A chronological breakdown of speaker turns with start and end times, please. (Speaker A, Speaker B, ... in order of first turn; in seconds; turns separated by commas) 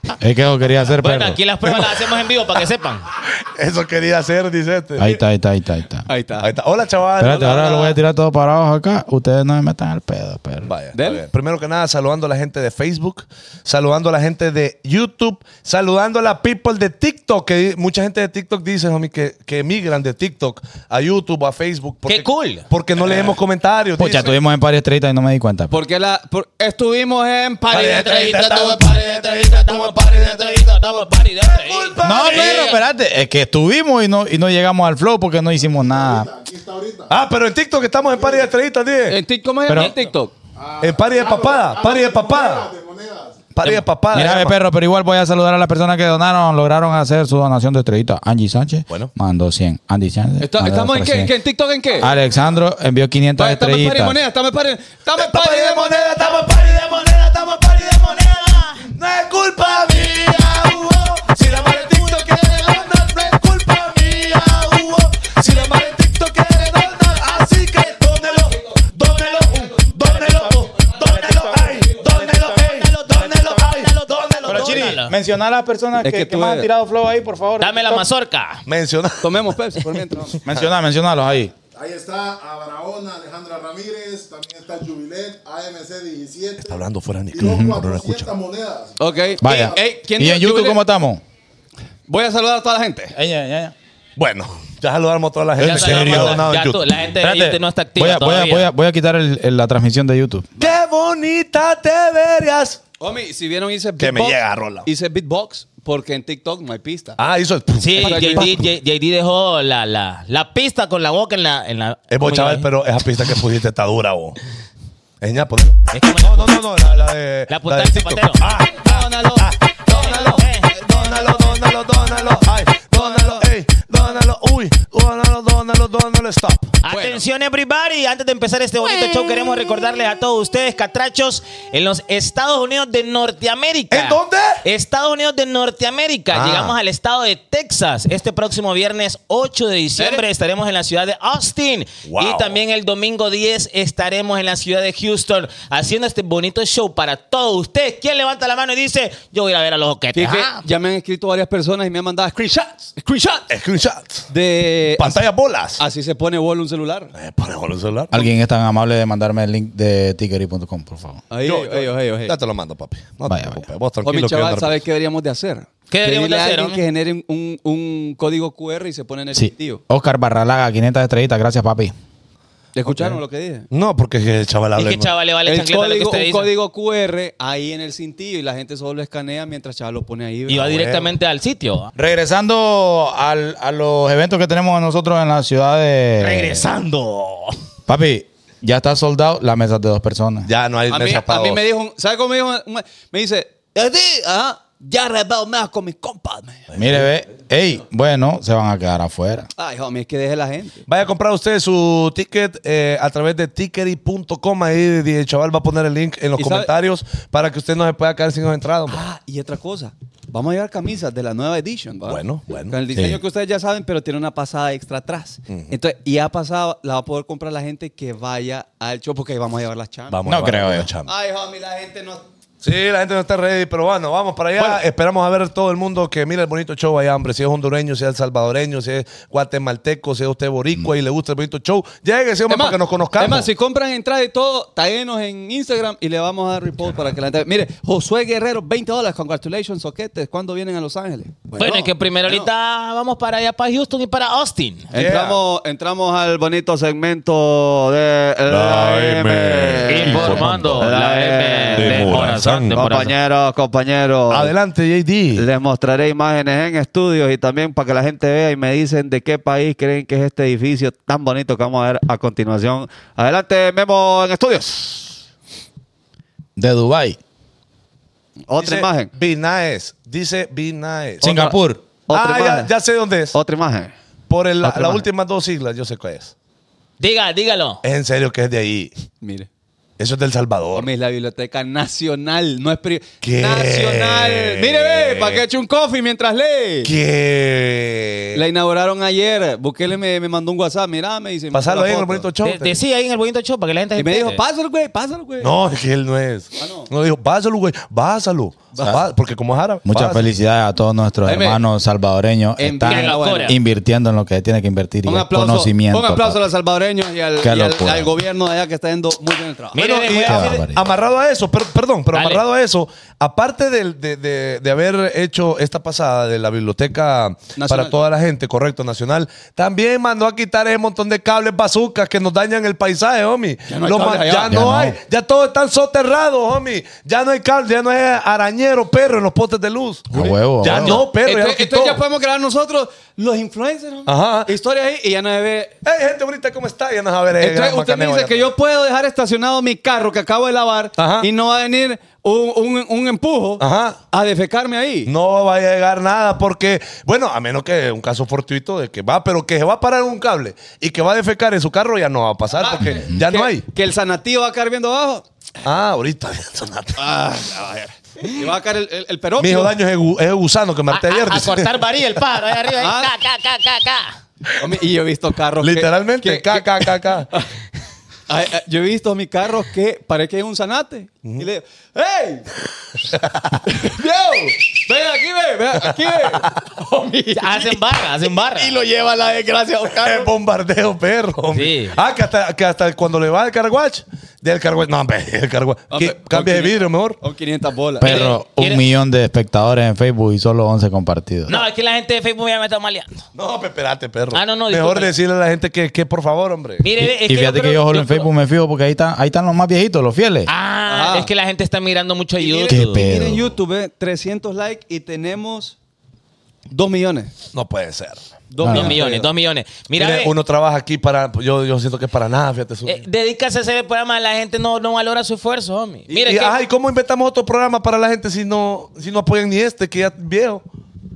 Speaker A: 0.2-1.4, Speaker B: 1.0-3.1, Speaker C: 1.7-2.3, Speaker C: 3.2-5.2, Speaker A: 5.0-6.1, Speaker D: 6.1-6.5, Speaker C: 6.4-8.0, Speaker A: 7.2-10.7, Speaker D: 7.2-7.9, Speaker C: 10.7-24.4, Speaker D: 10.9-11.2, Speaker B: 22.1-22.7, Speaker A: 24.0-25.8, Speaker D: 25.7-28.5, Speaker C: 27.7-32.8, Speaker B: 27.8-32.8, Speaker A: 32.0-36.3, Speaker E: 35.9-37.2, Speaker C: 37.1-39.2, Speaker E: 38.2-38.5, Speaker D: 39.1-40.3, Speaker E: 40.6-43.5, Speaker C: 40.8-42.7, Speaker C: 43.5-44.6, Speaker A: 44.1-51.3, Speaker D: 50.4-52.1, Speaker A: 52.0-54.2, Speaker D: 53.4-56.0, Speaker C: 55.1-75.0, Speaker B: 56.1-58.8, Speaker B: 61.5-62.5, Speaker B: 69.2-75.1, Speaker A: 74.5-78.1, Speaker D: 76.0-76.7, Speaker B: 77.6-78.6, Speaker C: 78.7-79.4, Speaker D: 79.2-80.4, Speaker A: 80.5-81.5, Speaker E: 81.7-89.8, Speaker C: 86.6-88.3, Speaker A: 87.4-87.8, Speaker D: 89.0-90.8, Speaker A: 89.4-91.2, Speaker D: 92.1-93.2, Speaker A: 93.2-93.7, Speaker C: 94.2-96.8, Speaker B: 95.6-98.7, Speaker A: 97.2-100.5, Speaker C: 100.6-102.8, Speaker D: 103.0-107.2, Speaker C: 104.0-104.9, Speaker C: 107.2-108.7, Speaker B: 107.8-112.7, Speaker D: 108.0-108.6, Speaker C: 112.1-114.4, Speaker C: 115.2-126.7, Speaker B: 115.9-118.5, Speaker D: 118.8-122.3, Speaker B: 119.9-120.8, Speaker D: 122.9-123.5, Speaker B: 126.8-150.6, Speaker D: 126.9-127.2, Speaker C: 133.9-134.6, Speaker C: 136.3-136.8, Speaker D: 140.0-140.2, Speaker C: 142.1-142.6, Speaker D: 150.1-153.5, Speaker C: 153.5-154.3, Speaker D: 154.3-155.2, Speaker C: 155.0-155.8, Speaker D: 155.8-157.1, Speaker C: 157.2-158.3, Speaker A: 158.1-161.2, Speaker D: 161.3-162.4, Speaker C: 161.4-164.8, Speaker A: 163.3-163.7, Speaker D: 164.0-169.8, Speaker B: 165.9-166.8, Speaker A: 169.3-171.9, Speaker D: 172.8-173.7, Speaker C: 173.7-175.1, Speaker B: 174.8-176.5, Speaker D: 175.5-180.9, Speaker B: 180.5-181.9, Speaker C: 180.6-181.1, Speaker A: 182.0-186.7, Speaker B: 186.2-187.6, Speaker A: 187.9-190.5, Speaker C: 190.5-191.6, Speaker D: 190.9-196.7, Speaker C: 196.7-197.1, Speaker A: 196.8-199.5, Speaker D: 199.6-200.8, Speaker C: 200.9-209.0, Speaker D: 206.4-206.7, Speaker D: 208.9-220.2, Speaker C: 212.1-212.8, Speaker C: 220.1-221.1, Speaker A: 220.3-220.9, Speaker D: 221.1-222.2, Speaker C: 222.6-233.5, Speaker D: 224.6-224.8, Speaker D: 232.5-242.5, Speaker B: 241.6-244.9, Speaker D: 244.9-254.5, Speaker C: 244.9-245.4, Speaker C: 248.5-250.9, Speaker B: 249.9-253.2, Speaker C: 251.8-252.9, Speaker C: 254.3-255.5, Speaker D: 255.3-265.2, Speaker A: 266.6-267.2, Speaker D: 268.5-269.1, Speaker C: 268.6-271.4, Speaker A: 271.2-271.8, Speaker D: 271.2-272.7, Speaker C: 272.1-273.4, Speaker D: 273.3-273.9, Speaker C: 274.3-276.3, Speaker D: 274.6-275.1, Speaker B: 277.0-277.8, Speaker C: 277.8-278.9, Speaker D: 279.2-279.5, Speaker C: 280.0-280.9, Speaker D: 280.8-286.9, Speaker C: 283.2-285.4, Speaker C: 286.9-288.4, Speaker D: 288.3-292.3, Speaker C: 291.5-292.8, Speaker B: 292.4-294.4, Speaker D: 294.0-295.5, Speaker C: 295.4-300.2, Speaker D: 296.6-296.9, Speaker D: 298.7-299.0, Speaker A: 299.9-306.4, Speaker D: 301.2-301.6, Speaker D: 302.6-303.6, Speaker B: 302.9-303.6, Speaker D: 305.1-309.8, Speaker A: 307.4-308.2, Speaker B: 309.7-310.6, Speaker C: 309.8-332.0, Speaker A: 310.2-310.8, Speaker B: 312.1-312.4, Speaker D: 317.6-318.0, Speaker D: 323.7-324.6, Speaker A: 324.5-325.0, Speaker A: 330.1-331.0, Speaker D: 330.2-335.8, Speaker C: 334.1-334.5, Speaker C: 335.8-338.5, Speaker D: 337.4-345.1, Speaker C: 341.0-341.3, Speaker C: 343.6-344.0, Speaker C: 345.1-353.6, Speaker D: 352.6-355.2, Speaker C: 355.6-357.0, Speaker D: 357.0-359.8, Speaker C: 359.4-361.8, Speaker B: 360.9-364.2, Speaker D: 362.8-363.1, Speaker D: 364.6-367.5, Speaker C: 365.6-367.3, Speaker D: 368.3-372.5, Speaker C: 373.1-373.6, Speaker D: 373.6-380.3, Speaker B: 377.4-378.8, Speaker C: 380.0-387.2, Speaker B: 381.5-382.0, Speaker D: 385.9-388.3, Speaker A: 388.0-391.6, Speaker B: 388.0-388.9, Speaker B: 391.5-393.2, Speaker C: 393.4-396.9, Speaker B: 394.3-395.1, Speaker B: 396.8-398.3, Speaker A: 397.0-400.5, Speaker B: 400.5-403.0, Speaker D: 400.9-401.3, Speaker D: 402.4-405.8, Speaker A: 402.7-403.6, Speaker D: 406.7-407.3, Speaker C: 407.5-408.2, Speaker D: 408.5-409.3, Speaker A: 408.6-408.9, Speaker B: 408.6-410.3, Speaker C: 410.0-413.0, Speaker B: 412.9-416.6, Speaker C: 416.1-420.6